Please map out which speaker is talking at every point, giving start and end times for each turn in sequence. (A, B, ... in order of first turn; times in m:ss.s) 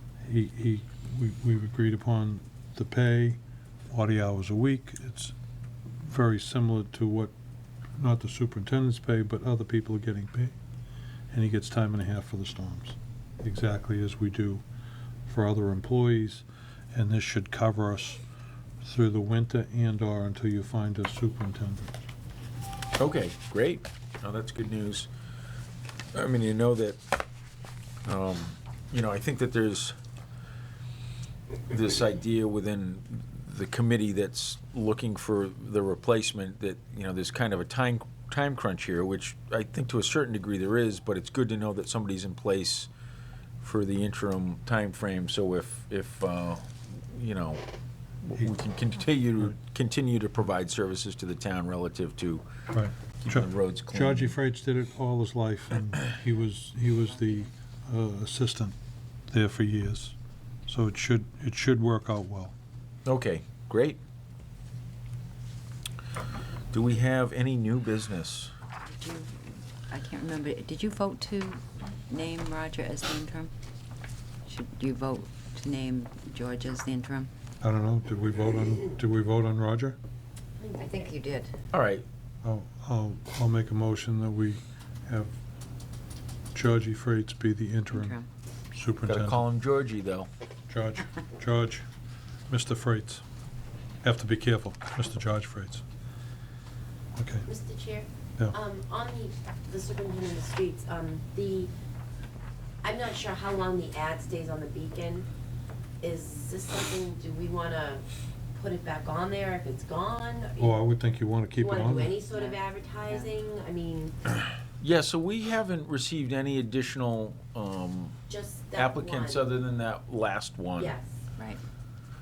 0:00.2-0:05.3 A
0:06.0-0:07.3 A
0:08.0-0:10.5 A
0:11.3-0:14.6 A
0:15.2-0:18.2 A
0:18.8-0:21.9 A
0:23.0-0:25.1 B
0:26.1-0:27.0 B
0:28.0-0:30.0 B
0:31.7-0:42.9 B
0:43.6-0:47.6 B
0:48.2-0:52.4 B
0:52.7-0:58.7 A
0:53.2-0:54.3 B
0:59.3-1:00.2 A
1:00.7-1:02.5 A
1:03.0-1:04.0 B
1:06.7-1:08.5 B
1:08.9-1:13.5 C
1:14.4-1:17.3 C
1:17.6-1:20.0 A
1:20.6-1:21.1 D
1:20.8-1:21.5 C
1:21.7-1:22.0 B
1:22.4-1:25.3 A
1:26.5-1:28.2 A
1:27.9-1:28.3 C
1:28.7-1:29.4 A
1:29.0-1:30.3 B
1:30.7-1:31.8 A
1:32.5-1:33.2 A
1:34.0-1:35.8 A
1:37.2-1:37.4 A
1:37.4-1:41.7 D
1:42.8-1:45.3 D
1:46.0-1:48.0 D
1:48.5-1:50.7 D
1:50.6-1:52.2 A
1:51.5-1:54.1 D
1:52.3-1:53.3 C
1:54.8-1:58.2 B
1:58.3-1:59.5 D
1:58.8-2:01.0 B
2:00.8-2:01.1 D